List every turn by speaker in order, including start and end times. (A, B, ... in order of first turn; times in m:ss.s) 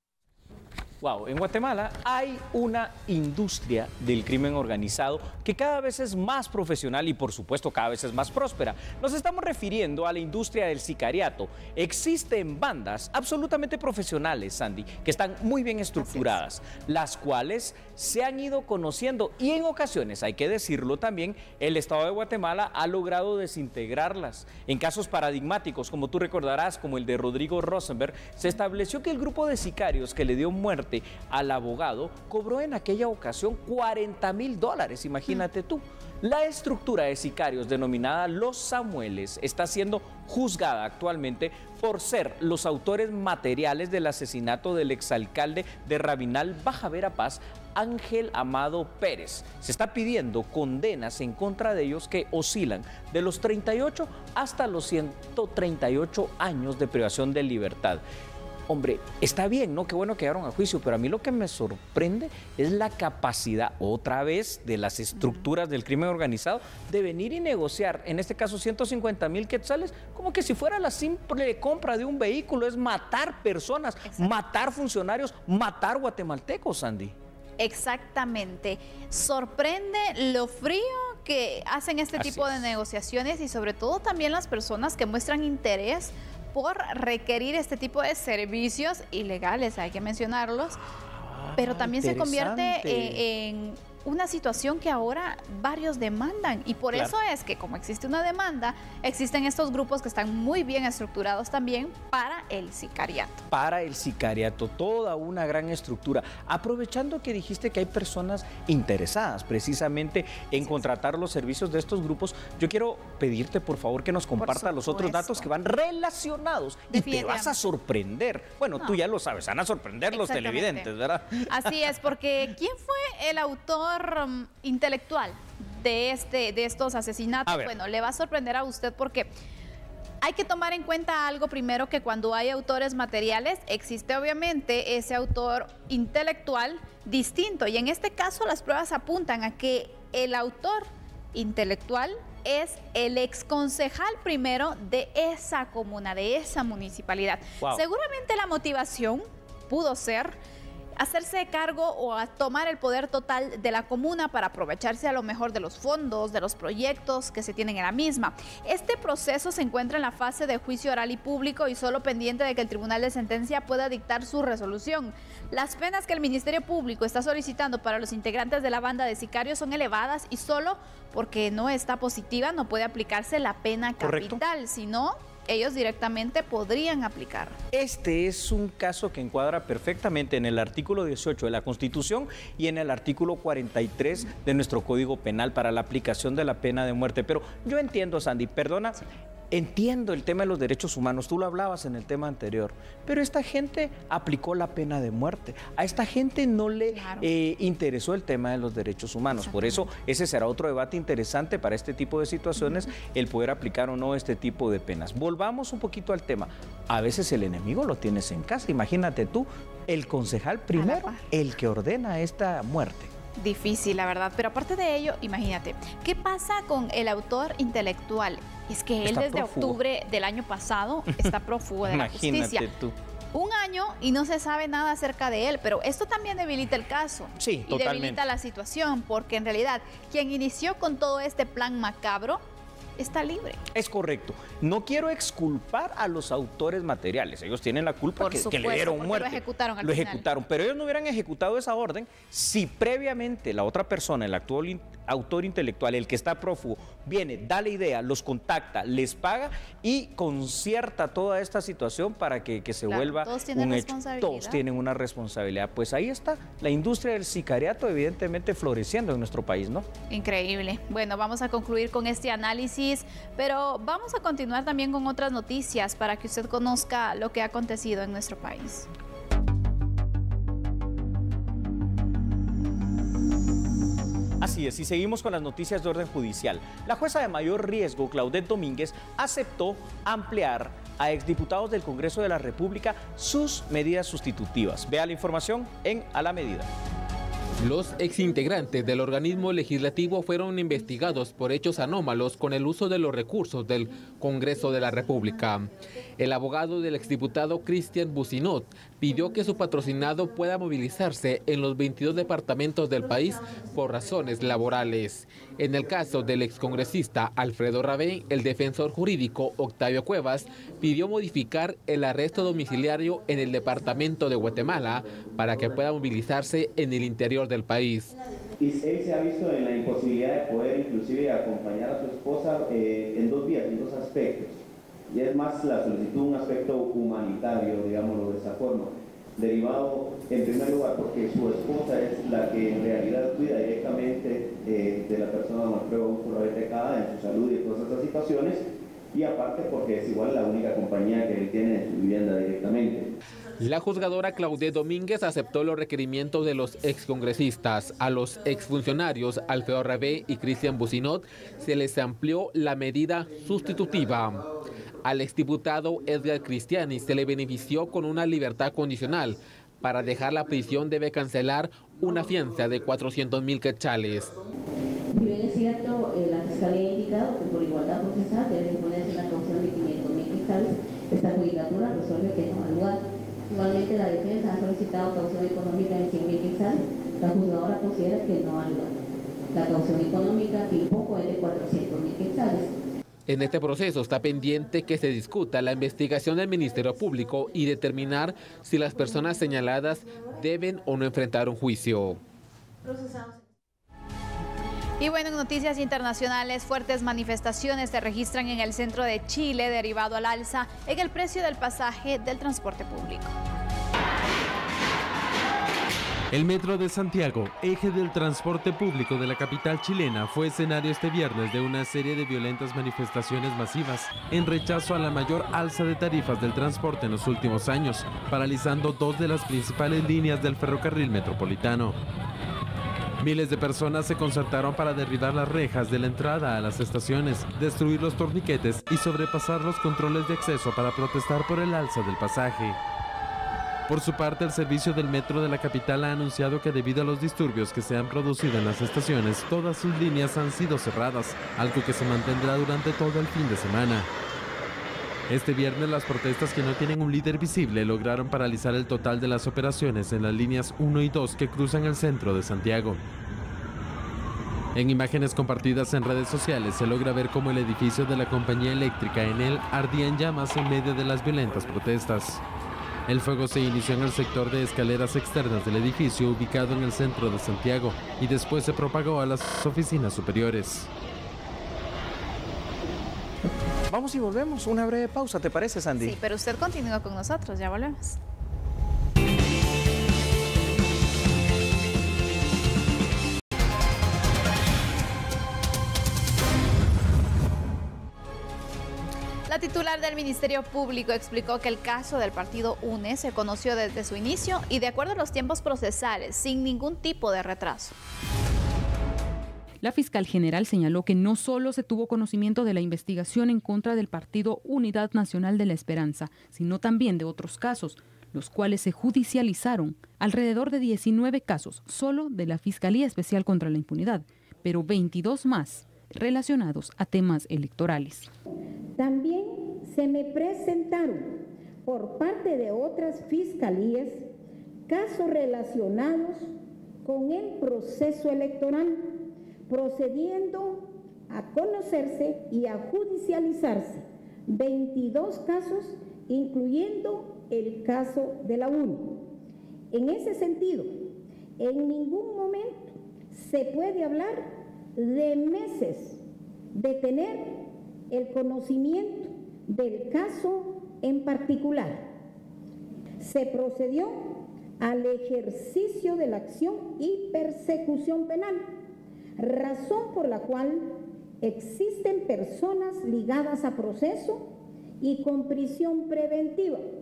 0:01.0-0:58.0 A
0:16.0-0:16.4 B
0:58.7-1:17.1 A
1:05.2-1:05.5 B
1:14.0-1:14.3 B
1:17.6-1:30.8 B
1:22.2-1:22.7 A
1:31.2-1:33.2 A
1:31.6-1:43.4 B
1:43.5-2:01.7 A
1:50.6-1:50.9 B
1:54.4-1:55.5 B
1:56.9-1:57.6 B
2:00.1-2:00.9 B
2:01.5-2:09.3 B
2:07.5-2:07.7 A
2:10.2-2:30.4 B
2:31.0-2:57.6 B
2:54.0-2:54.4 A
2:57.7-3:09.0 A
3:09.5-3:33.1 A
3:16.9-3:17.3 B
3:19.4-3:19.8 B
3:30.7-3:31.2 B
3:33.4-3:42.6 B
3:39.0-3:39.8 A
3:41.8-3:42.9 A
3:43.3-3:52.4 B
3:47.4-3:48.2 A
3:53.0-3:53.6 B
3:53.7-4:19.8 A
3:58.2-4:00.2 B
4:12.9-4:14.6 B
4:20.1-4:28.9 B
4:34.4-4:46.7 A
4:47.6-5:18.1 C
5:18.6-5:43.1 D
5:43.6-5:54.5 C
5:55.0-6:04.3 C
6:05.1-6:18.9 E
6:19.5-6:22.7 E
6:23.3-6:32.2 C
6:35.0-6:43.3 B
6:46.3-7:02.0 F
7:03.2-7:12.8 F
7:13.9-7:24.1 F
7:25.3-7:33.0 F
7:34.7-7:42.4 F
7:43.1-7:50.9 F
7:53.9-7:56.2 A
7:56.0-7:58.2 B
8:09.5-8:17.9 B
8:19.8-8:38.3 G
8:39.0-8:44.3 H
8:44.9-8:46.5 H
8:47.0-8:59.3 H
8:59.9-9:06.2 H
9:06.7-9:12.0 H
9:13.2-9:18.6 H
9:19.4-9:26.8 H